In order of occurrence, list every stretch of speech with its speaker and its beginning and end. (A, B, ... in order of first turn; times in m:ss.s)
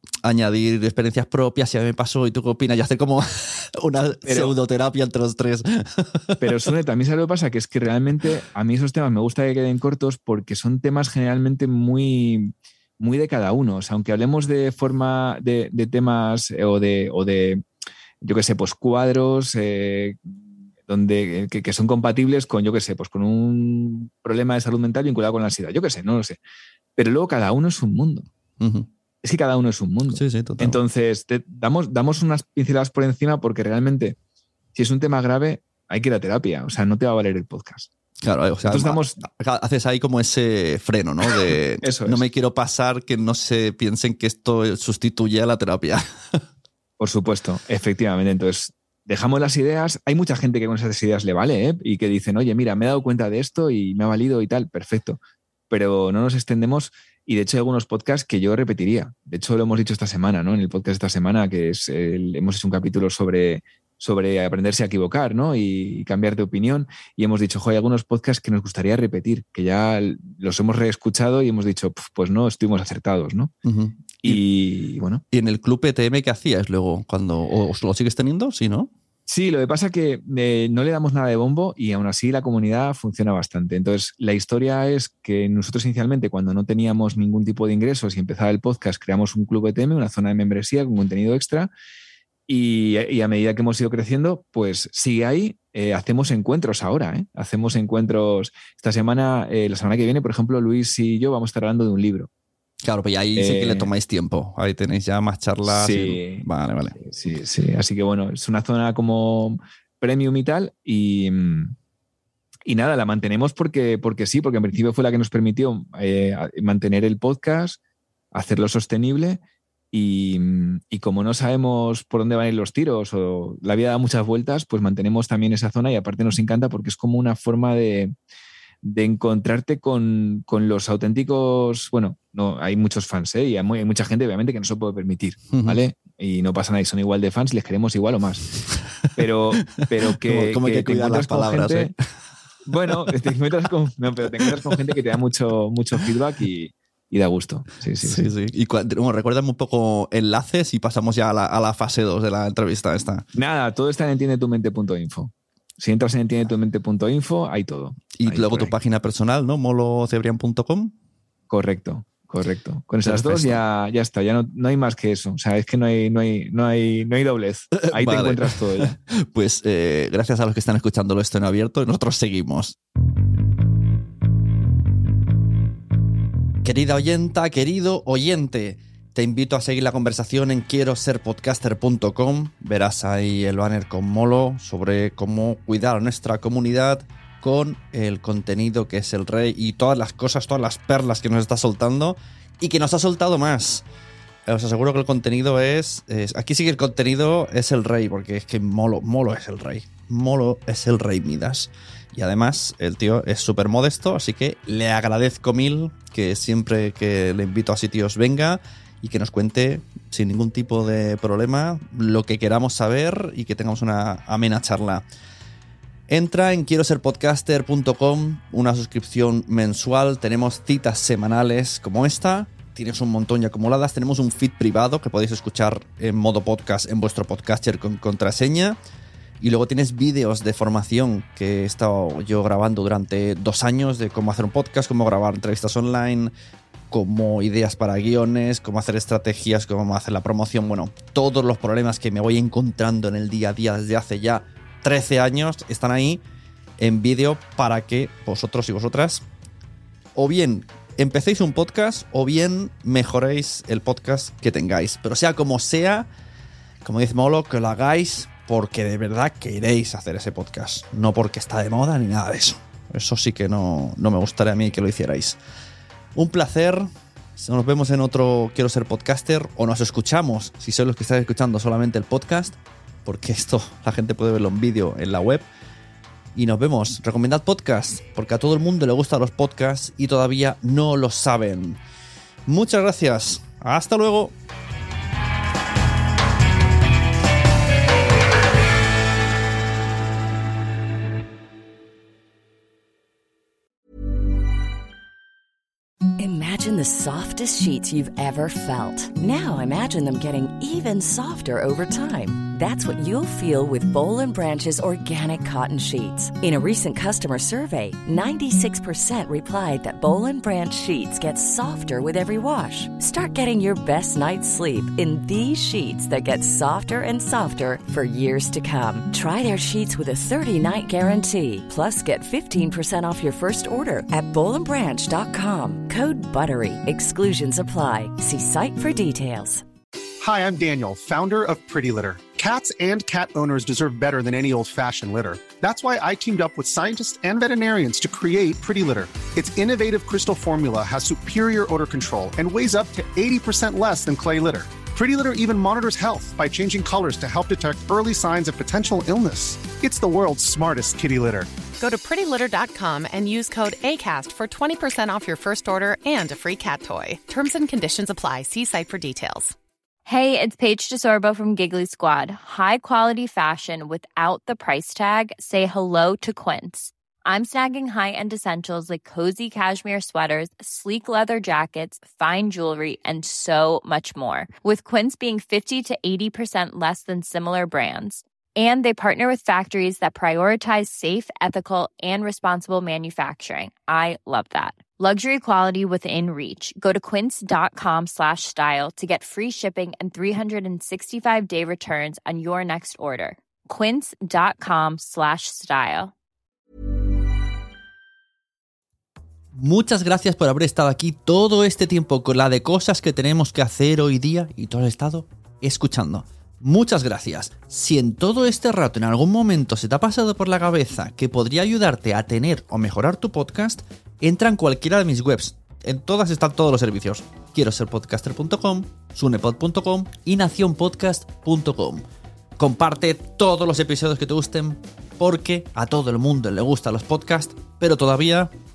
0:00.2-0:06.4 A
0:04.2-0:04.5 B
0:06.4-0:17.6 B
0:18.2-0:26.4 B
0:27.0-0:28.3 B
0:28.6-0:28.9 A
0:29.2-0:34.2 B
0:30.1-0:30.8 A
0:34.7-0:37.9 B
0:38.2-0:46.4 A
0:38.6-0:39.2 B
0:41.5-0:42.2 B
0:47.0-1:13.5 B
1:13.6-1:14.4 A
1:14.2-1:15.2 B
1:15.3-1:18.9 A
1:19.3-1:31.7 B
1:32.5-1:42.3 B
1:42.8-1:47.0 A
1:43.4-1:43.9 B
1:45.6-1:51.8 B
1:52.6-1:57.8 B
1:58.3-2:08.1 B
2:08.8-2:18.5 B
2:15.5-2:15.8 A
2:19.1-2:21.9 B
2:19.6-2:22.0 A
2:22.6-2:28.3 B
2:22.9-2:23.3 A
2:24.4-2:24.8 A
2:28.0-2:33.2 A
2:33.3-2:38.7 B
2:38.2-2:40.9 A
2:41.5-2:49.0 B
2:43.0-2:43.6 A
2:47.7-2:52.8 A
2:56.6-3:13.8 A
3:14.5-3:35.0 A
3:36.1-3:48.8 A
3:49.4-3:56.3 A
3:56.9-4:06.2 A
4:06.8-4:09.2 A
4:10.2-4:16.1 A
4:16.8-4:25.4 A
4:26.1-4:35.4 A
4:36.3-4:41.8 A
4:42.4-4:44.3 A
4:56.2-5:29.6 C
5:30.2-5:51.5 D
5:51.8-5:59.5 E
6:00.0-6:36.1 F
6:39.5-7:02.0 A
7:02.6-7:08.5 A